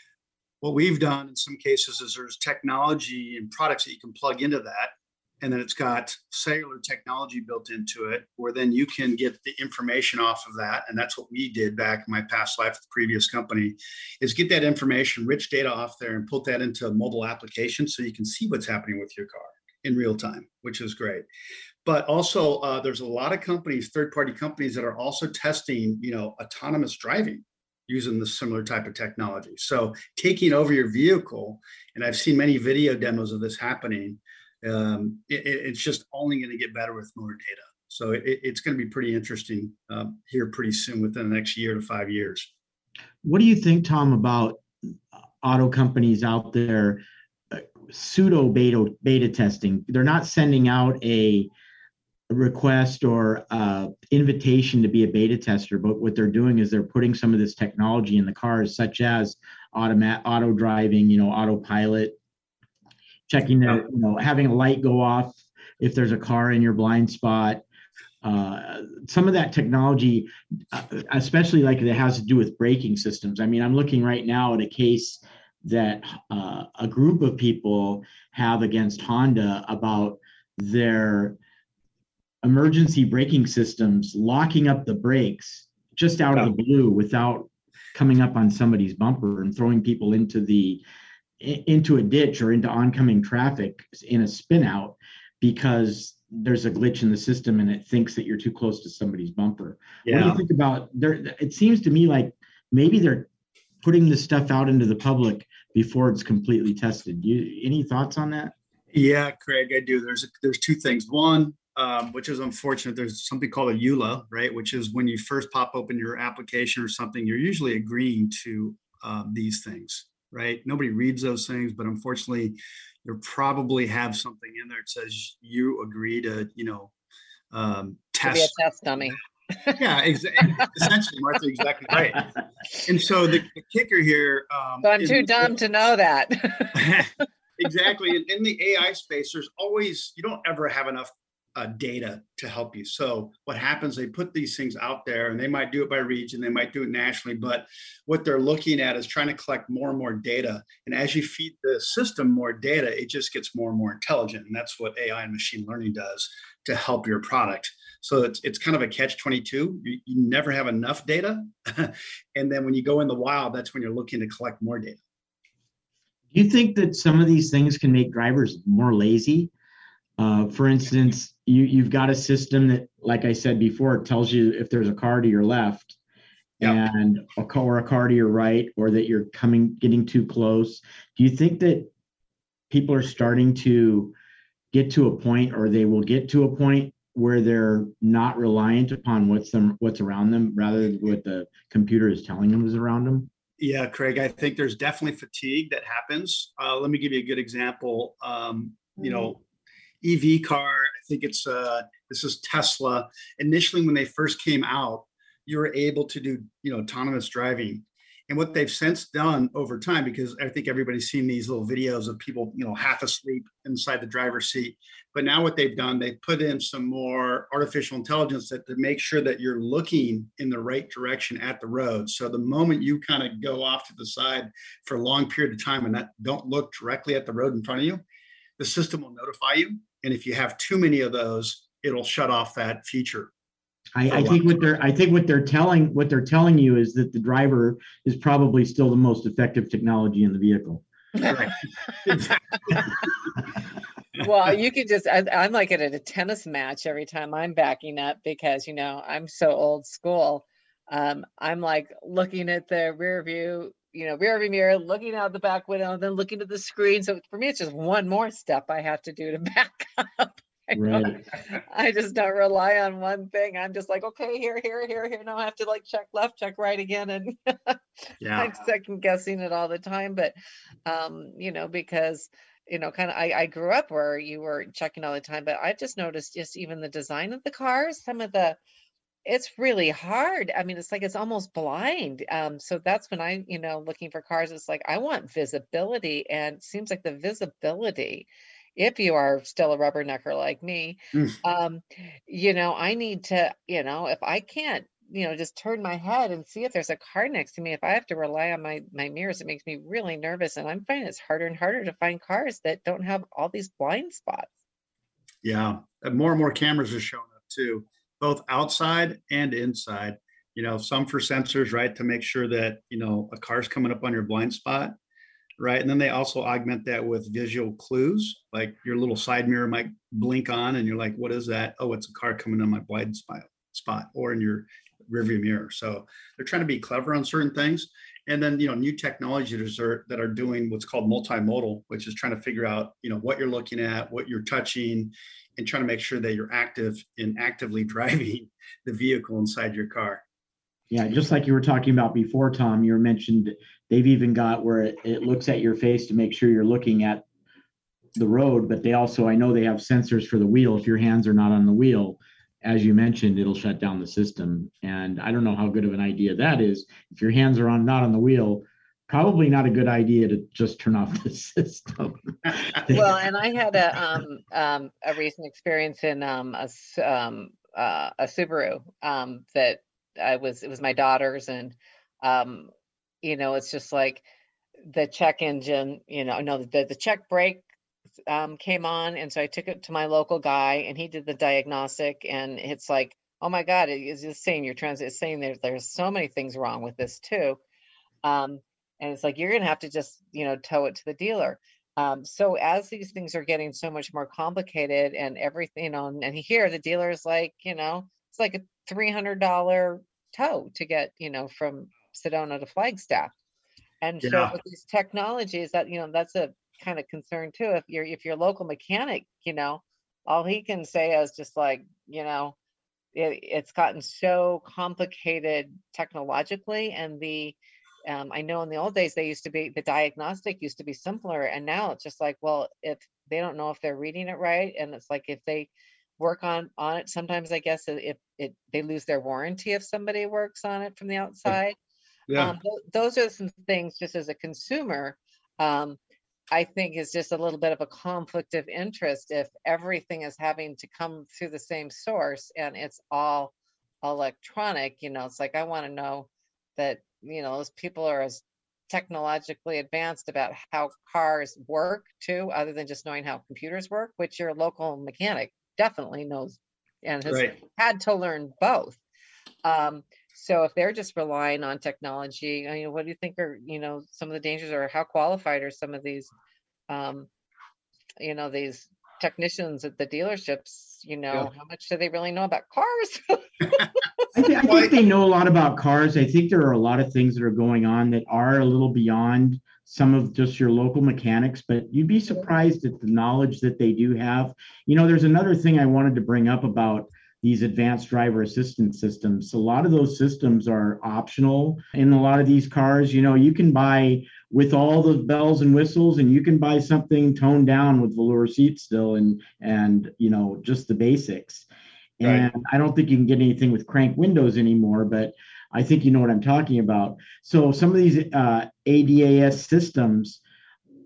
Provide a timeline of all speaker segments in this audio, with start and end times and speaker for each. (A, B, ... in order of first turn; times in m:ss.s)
0:00.6-0:21.2 A
0:21.8-0:42.5 A
0:43.2-0:44.6 B
0:45.4-0:51.5 B
0:52.3-1:02.2 B
1:03.3-1:07.6 B
1:08.2-1:21.4 B
1:22.4-1:30.8 B
1:31.4-1:43.3 B
1:40.0-1:40.4 A
1:43.8-1:48.5 B
1:48.9-2:06.9 A
2:07.5-2:08.6 A
2:08.2-2:09.8 C
2:09.8-2:12.2 A
2:12.8-2:15.5 A
2:14.8-2:16.9 C
2:16.7-2:45.0 A
2:46.3-2:49.5 B
2:50.2-2:56.0 B
2:56.6-3:01.9 B
3:02.7-3:04.1 B
3:04.7-3:13.3 B
3:13.6-3:19.4 A
3:20.0-3:48.0 A
3:48.6-3:53.3 A
3:54.0-4:00.8 B
3:54.1-3:54.5 A
4:01.3-4:02.4 A
4:04.2-4:27.8 C
4:20.7-4:21.2 B
4:28.2-4:28.7 A
4:28.3-4:30.3 C
4:30.8-4:38.6 C
4:39.2-5:04.5 C
5:05.4-5:14.9 A
5:15.6-5:40.2 A
5:40.9-5:47.2 B
5:48.2-6:03.2 B
6:02.9-6:12.7 C
6:13.2-6:14.2 C
6:14.9-6:17.6 C
6:18.3-6:27.6 C
6:28.2-6:43.3 C
6:44.0-6:52.6 C
6:44.2-6:44.6 A
6:53.1-7:11.8 C
7:12.3-7:12.5 A
7:12.3-7:16.0 C
7:16.5-7:39.0 C
7:37.3-7:37.5 A
7:39.6-7:46.3 C
7:46.9-7:47.3 C
7:48.2-7:54.0 C
7:54.3-8:21.7 B
7:54.6-7:54.9 A
8:22.2-8:30.4 B
8:22.2-8:22.5 A